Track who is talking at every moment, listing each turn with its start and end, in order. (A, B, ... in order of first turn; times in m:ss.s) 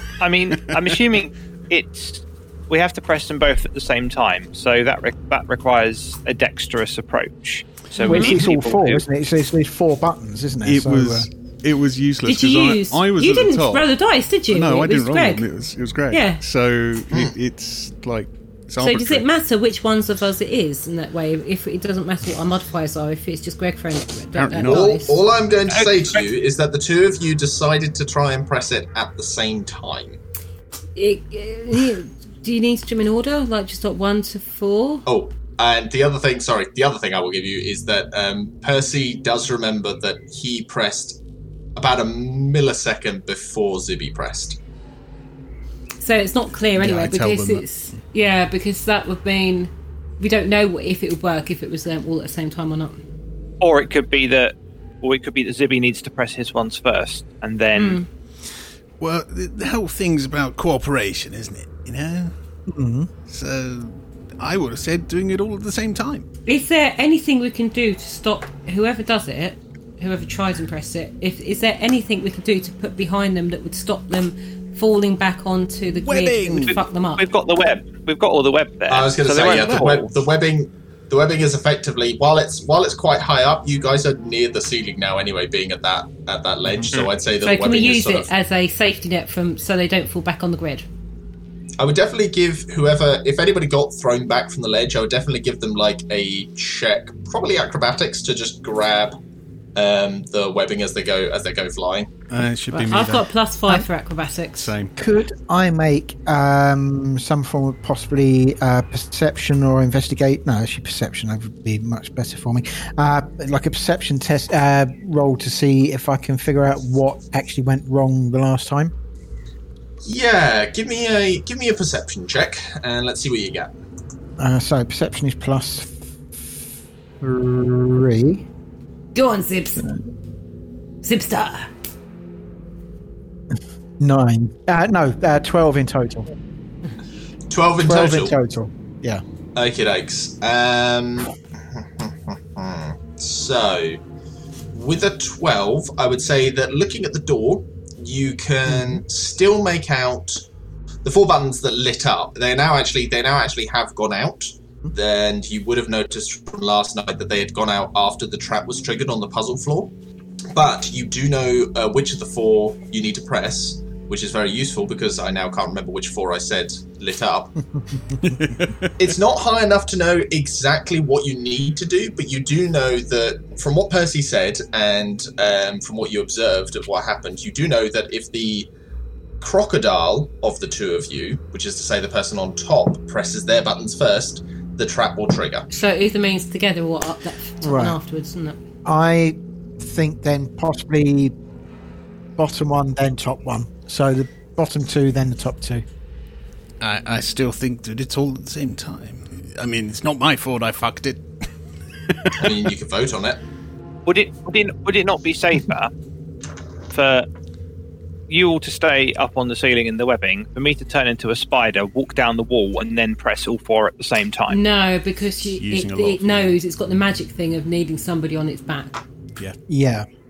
0:00.2-0:09.0 A
0:08.0-0:08.4 B
0:08.0-0:11.3 C
0:10.6-0:13.9 D
0:12.2-0:15.4 B
0:14.5-0:19.2 D
0:16.1-0:16.4 B
0:18.8-0:25.2 B
0:24.4-0:24.9 E
0:24.6-0:30.2 F
0:25.7-0:26.2 A
0:31.0-0:35.0 B
0:35.0-0:41.2 F
0:41.8-0:44.6 F
0:46.0-0:53.0 B
0:46.8-0:47.6 E
0:53.6-0:58.0 A
0:57.7-0:58.0 B
0:59.0-1:02.3 E
1:02.7-1:03.1 C
1:03.3-1:06.2 E
1:06.4-1:17.2 B
1:16.0-1:16.8 E
1:16.7-1:20.1 A
1:18.9-1:28.3 F
1:27.4-1:30.8 B
1:31.8-1:39.2 F
1:39.7-1:42.1 F
1:42.3-1:43.3 D
1:42.7-1:44.7 B
1:44.5-1:44.9 D
1:45.0-1:58.9 C
2:00.0-2:03.7 F
2:04.4-2:05.9 C
2:07.2-2:08.4 C
2:09.1-2:09.9 B
2:09.8-2:10.0 C
2:11.0-2:11.7 B
2:14.0-2:16.3 C
2:17.5-2:18.3 F
2:17.8-2:19.2 C
2:19.6-2:24.0 F
2:24.7-2:30.4 F
2:28.7-2:29.0 C
2:31.0-2:39.9 F
2:40.5-2:47.6 F
2:49.0-2:58.7 F
2:59.4-3:05.7 F
3:05.7-3:08.6 B
3:07.6-3:08.0 C
3:08.8-3:11.3 C
3:12.4-3:15.8 C
3:16.8-3:21.2 E
3:22.1-3:22.5 E
3:22.4-3:23.4 F
3:24.0-3:25.9 A
3:26.9-3:27.3 A
3:28.3-3:34.6 A
3:34.5-3:39.0 B
3:35.8-3:36.5 D
3:39.7-3:40.0 C